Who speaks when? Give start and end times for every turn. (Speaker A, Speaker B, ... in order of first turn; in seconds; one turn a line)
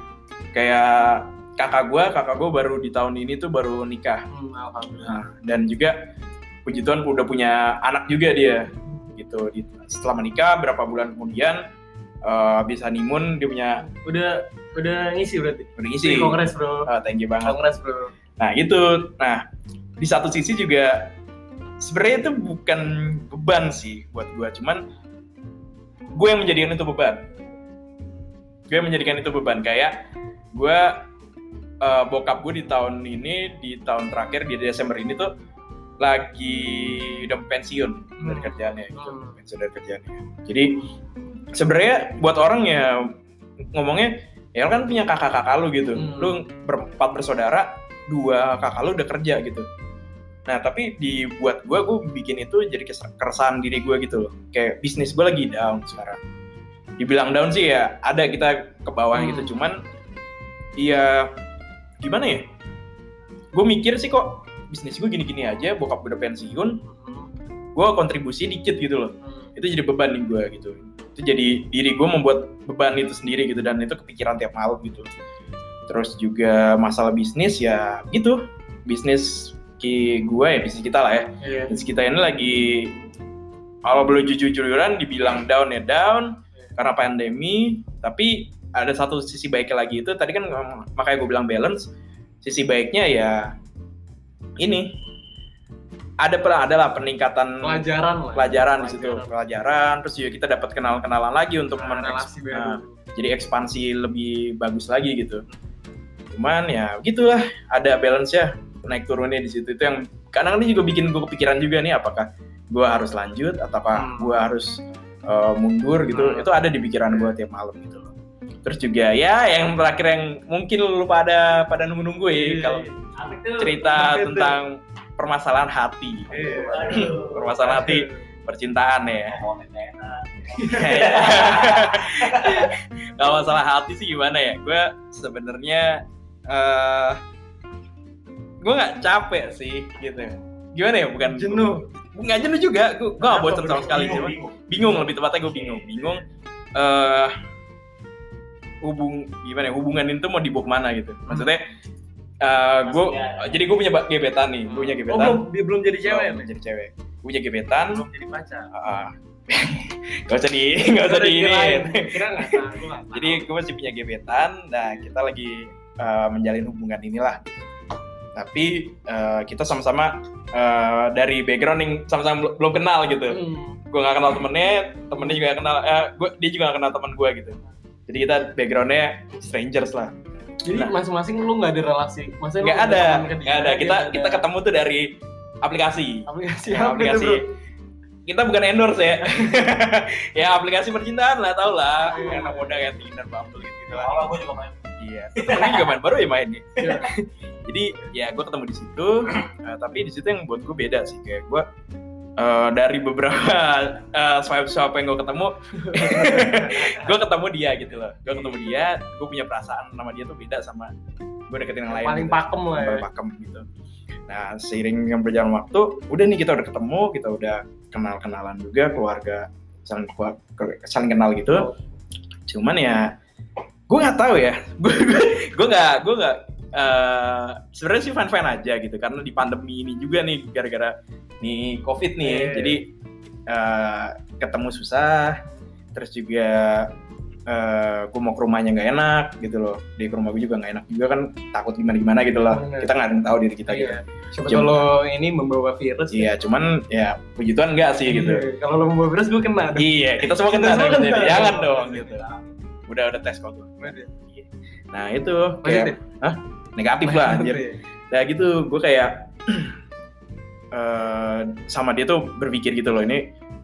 Speaker A: 0.5-4.2
Speaker B: 4.3-5.2
Speaker A: 5.0-6.1
Speaker A: 6.7-11.7
Speaker A: 12.2-13.8
Speaker B: 13.8-16.9
Speaker A: 15.8-17.6
Speaker B: 17.4-18.1
Speaker A: 18.4-19.4
Speaker A: 20.0-21.1
Speaker A: 21.8-24.8
Speaker A: 26.2-27.2
Speaker A: 28.7-30.0
Speaker A: 30.5-31.1
Speaker A: 31.8-35.3
Speaker A: 36.0-40.8
Speaker B: 38.2-39.4
Speaker A: 41.5-43.1
Speaker A: 43.7-49.7
Speaker B: 46.0-46.4
Speaker A: 50.5-56.2
Speaker A: 57.0-59.8
Speaker B: 59.1-59.6
Speaker A: 60.8-61.4
Speaker A: 62.0-62.5
Speaker A: 63.5-66.8
Speaker B: 66.8-67.3
Speaker A: 67.8-75.1
Speaker B: 69.2-69.5
Speaker A: 75.9-82.9
Speaker B: 81.4-81.8
Speaker A: 83.9-91.9
Speaker A: 92.4-93.5
Speaker A: 94.6-94.9
Speaker A: 96.2-105.5
Speaker B: 97.6-99.3
Speaker B: 101.8-103.0
Speaker A: 106.3-118.1
Speaker B: 114.0-114.4
Speaker B: 116.1-116.6
Speaker A: 118.7-122.9
Speaker B: 122.3-124.6
Speaker A: 123.6-129.4
Speaker B: 126.3-128.2
Speaker C: 126.7-127.7
Speaker C: 129.3-132.7
Speaker B: 130.5-131.5
Speaker A: 130.7-137.2
Speaker A: 138.6-146.2
Speaker B: 141.2-141.9
Speaker B: 143.2-144.3
Speaker C: 143.6-144.6
Speaker A: 146.8-147.3
Speaker A: 148.8-151.7
Speaker A: 152.4-155.4
Speaker C: 152.8-153.7
Speaker B: 154.7-156.5
Speaker A: 156.0-158.0
Speaker B: 157.9-158.7
Speaker A: 158.7-162.6
Speaker B: 161.0-163.5
Speaker A: 163.1-167.5
Speaker A: 168.3-173.4
Speaker B: 173.3-173.8
Speaker A: 173.9-177.6
Speaker A: 178.1-180.1
Speaker B: 180.7-184.4
Speaker A: 182.6-187.4
Speaker B: 186.3-187.4
Speaker A: 188.3-194.2
Speaker B: 192.1-192.8
Speaker C: 193.9-194.8
Speaker A: 195.0-197.1
Speaker C: 195.3-195.9
Speaker B: 196.8-197.2
Speaker A: 197.7-201.7
Speaker A: 202.4-210.9
Speaker B: 205.8-207.2
Speaker B: 208.2-208.7
Speaker A: 211.5-213.7
Speaker B: 211.9-213.1
Speaker A: 214.3-221.7
Speaker A: 222.5-223.1
Speaker A: 223.9-232.9
Speaker B: 232.2-232.8
Speaker A: 233.5-235.4
Speaker A: 235.9-236.9
Speaker A: 237.5-244.8
Speaker B: 242.5-242.9
Speaker B: 243.7-246.3
Speaker A: 246.1-248.5
Speaker B: 248.1-252.1
Speaker A: 249.8-252.2
Speaker C: 251.2-252.5
Speaker A: 252.9-259.8
Speaker B: 253.8-254.1
Speaker B: 255.6-256.0
Speaker B: 257.0-257.8
Speaker A: 260.7-263.3